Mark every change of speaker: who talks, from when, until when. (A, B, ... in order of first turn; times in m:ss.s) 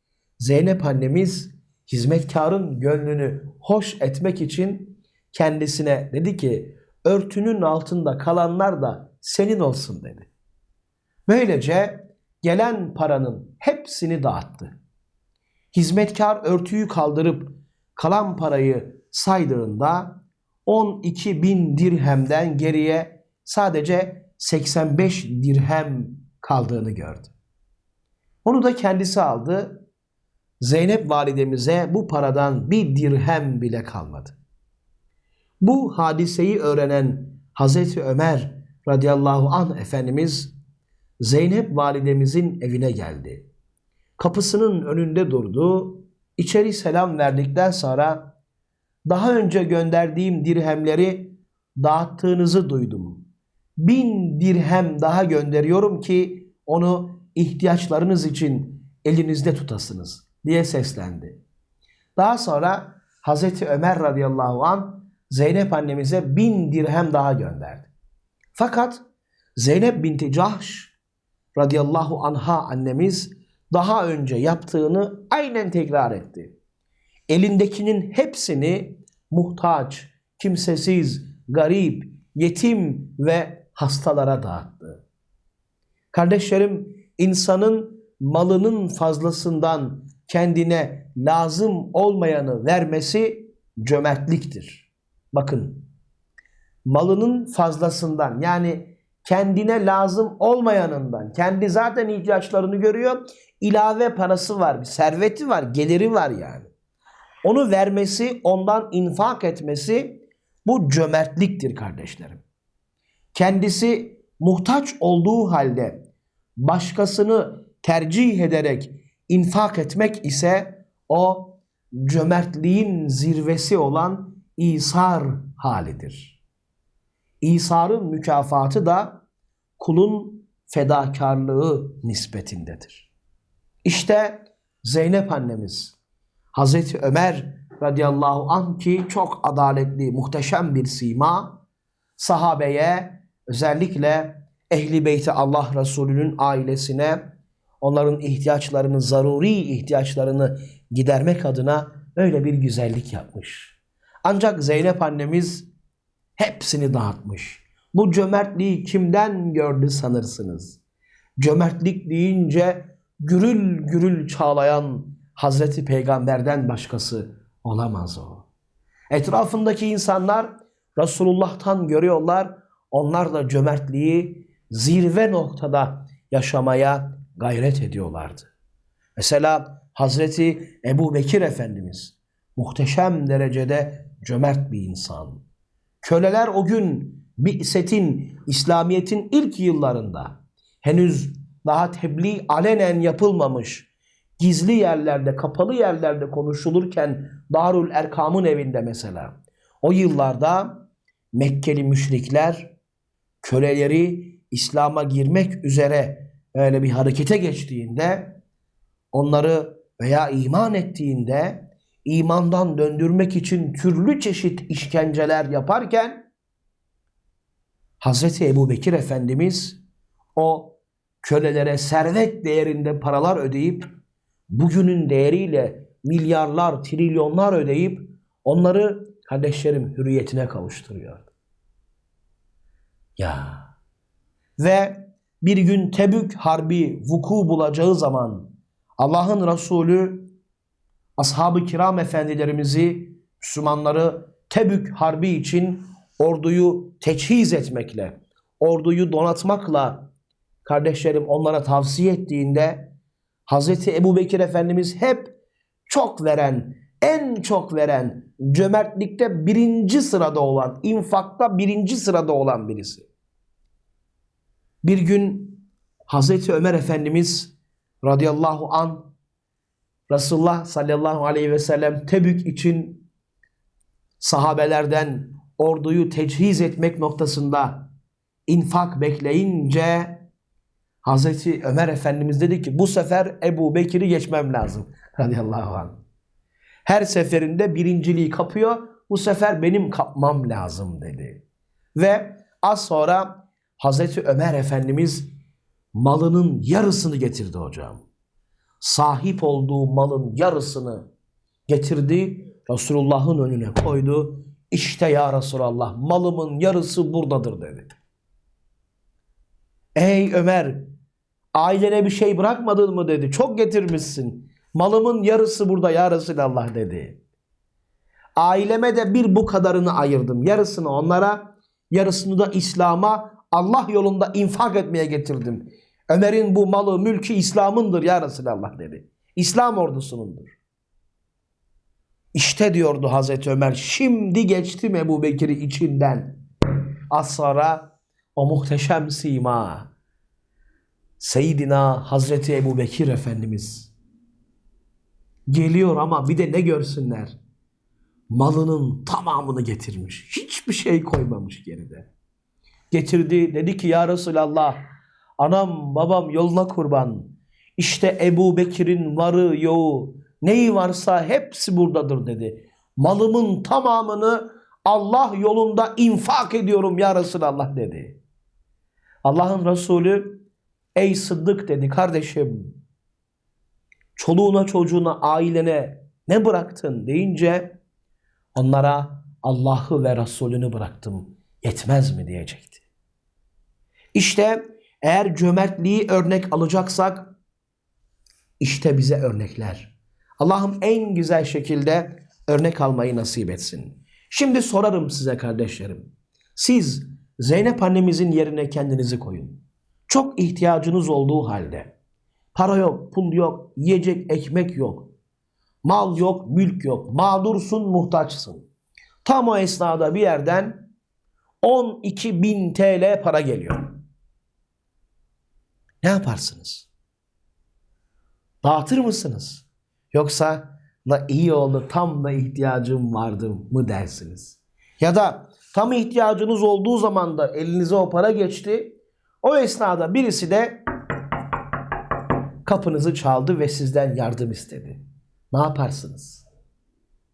0:00.4-0:10.3 A
0:11.2-0:14.8 A
0:15.7-0:27.3 A
0:28.4-0:29.8 A
0:30.6-0:34.4 A
0:35.6-0:40.5 A
0:41.2-0:43.5 A
0:44.2-0:48.3 A
0:49.0-0:53.2 A
0:53.8-1:01.4 A
1:02.2-1:07.9 A
1:08.5-1:09.0 A
1:09.6-1:10.9 A
1:11.5-1:16.5 A
1:17.3-1:25.0 A
1:26.1-1:35.9 A
1:36.8-1:46.7 A
1:47.4-1:52.4 A
1:53.3-1:56.0 A
1:56.6-2:06.4 A
2:07.4-2:09.2 A
2:09.8-2:13.1 A
2:13.8-2:16.0 A
2:16.5-2:21.6 A
2:22.2-2:35.7 A
2:36.4-2:40.8 A
2:41.4-2:48.5 A
2:49.1-2:58.5 A
2:59.2-3:05.4 A
3:06.0-3:22.7 A
3:23.4-3:28.4 A
3:29.1-3:36.3 A
3:38.0-3:39.8 A
3:40.4-3:43.8 A
3:44.5-3:51.3 A
3:53.2-3:53.7 A
3:54.6-4:00.3 A
4:01.2-4:10.0 A
4:10.6-4:12.9 A
4:13.5-4:15.3 A
4:15.9-4:23.1 A
4:24.8-4:29.1 A
4:30.1-4:33.0 A
4:34.2-4:37.9 A
4:38.5-4:40.2 A
4:41.0-4:46.0 A
4:46.8-4:51.4 A
4:52.0-4:55.2 A
4:55.9-4:58.0 A
4:58.8-5:01.1 A
5:01.7-5:07.9 A
5:09.9-5:10.8 A
5:11.5-5:17.2 A
5:18.4-5:30.6 A
5:32.3-5:36.4 A
5:37.1-5:39.9 A
5:41.2-5:43.9 A
5:45.5-5:47.4 A
5:48.3-5:52.1 A
5:52.9-5:54.8 A
5:55.4-6:08.2 A
6:09.2-6:10.4 A
6:10.9-6:12.8 A
6:14.2-6:17.8 A
6:18.5-6:22.8 A
6:24.1-6:27.3 A
6:28.6-6:41.9 A
6:42.5-6:45.1 A
6:45.8-6:48.7 A
6:49.2-6:50.9 A
6:51.6-6:54.0 A
6:56.0-6:56.9 A
6:58.6-7:10.8 A
7:12.6-7:15.0 A
7:15.5-7:16.4 A